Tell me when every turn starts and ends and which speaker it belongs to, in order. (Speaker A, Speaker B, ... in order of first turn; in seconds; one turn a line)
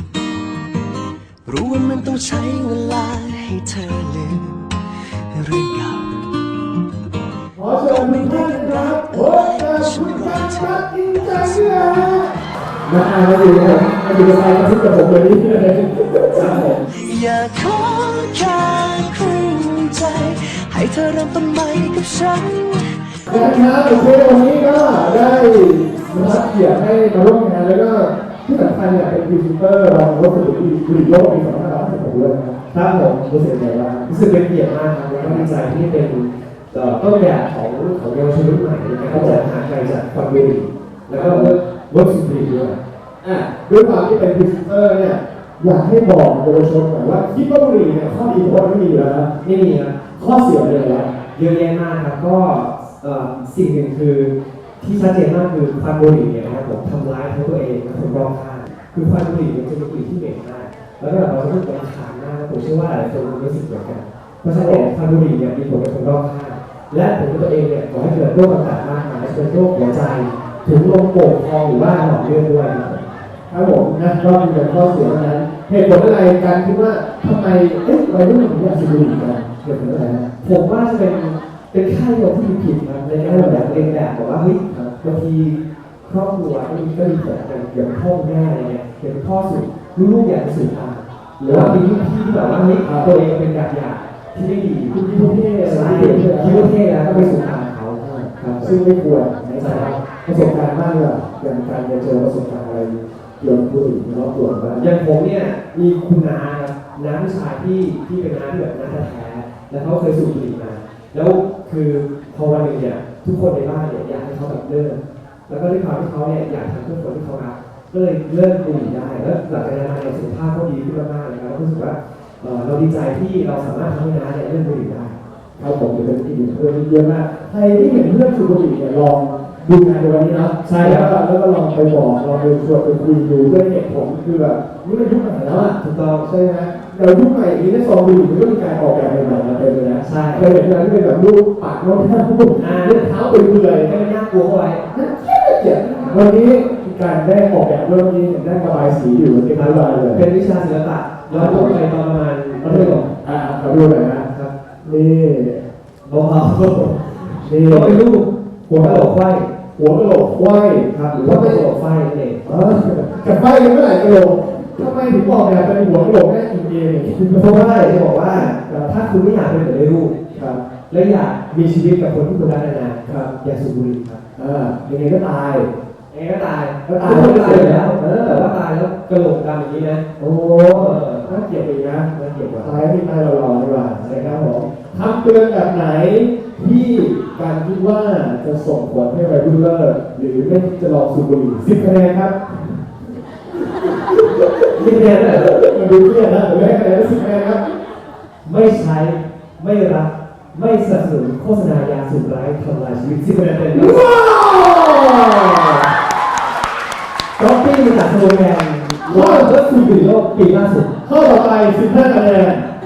Speaker A: 1.5-6.3
Speaker B: 7.6-12.3
Speaker A: 7.6-12.3
Speaker B: 12.9-16.8
Speaker C: 16.4-16.8
Speaker A: 16.8-23.5
Speaker B: 23.3-34.1
Speaker C: 32.7-33.1
Speaker C: 34.1-42.8
Speaker B: 35.1-35.5
Speaker B: 39.1-39.4
Speaker B: 41.1-41.5
Speaker B: 43.2-49.3
Speaker C: 49.4-50.0
Speaker B: 50.1-51.1
Speaker C: 51.3-73.1
Speaker B: 64.4-64.9
Speaker B: 73.5-80.3
Speaker C: 80.4-95.0
Speaker B: 83.2-84.0
Speaker B: 84.7-85.0
Speaker B: 91.4-91.8
Speaker B: 92.8-93.2
Speaker B: 94.9-97.4
Speaker C: 95.6-98.7
Speaker B: 98.0-104.9
Speaker C: 99.6-99.9
Speaker C: 104.8-125.2
Speaker B: 125.6-143.9
Speaker C: 130.6-131.1
Speaker C: 135.5-136.3
Speaker C: 140.0-140.5
Speaker C: 142.6-143.1
Speaker C: 143.8-144.9
Speaker B: 144.9-150.3
Speaker C: 146.0-146.3
Speaker C: 149.5-153.1
Speaker B: 151.3-151.8
Speaker B: 152.6-154.3
Speaker B: 154.8-155.7
Speaker C: 156.1-159.5
Speaker B: 157.4-158.0
Speaker B: 158.7-159.1
Speaker B: 159.8-161.6
Speaker C: 160.9-162.4
Speaker B: 162.4-168.9
Speaker C: 167.3-170.2
Speaker B: 170.3-170.6
Speaker C: 170.9-174.2
Speaker B: 173.1-173.3
Speaker B: 174.4-175.7
Speaker C: 176.1-180.1
Speaker B: 176.9-178.5
Speaker B: 180.2-182.1
Speaker C: 180.7-181.3
Speaker C: 182.1-182.8
Speaker B: 182.6-192.9
Speaker C: 184.0-184.4
Speaker B: 193.5-197.6
Speaker C: 194.7-195.6
Speaker C: 198.4-204.1
Speaker B: 203.7-205.9
Speaker C: 207.4-210.9
Speaker B: 209.1-209.6
Speaker B: 211.0-212.6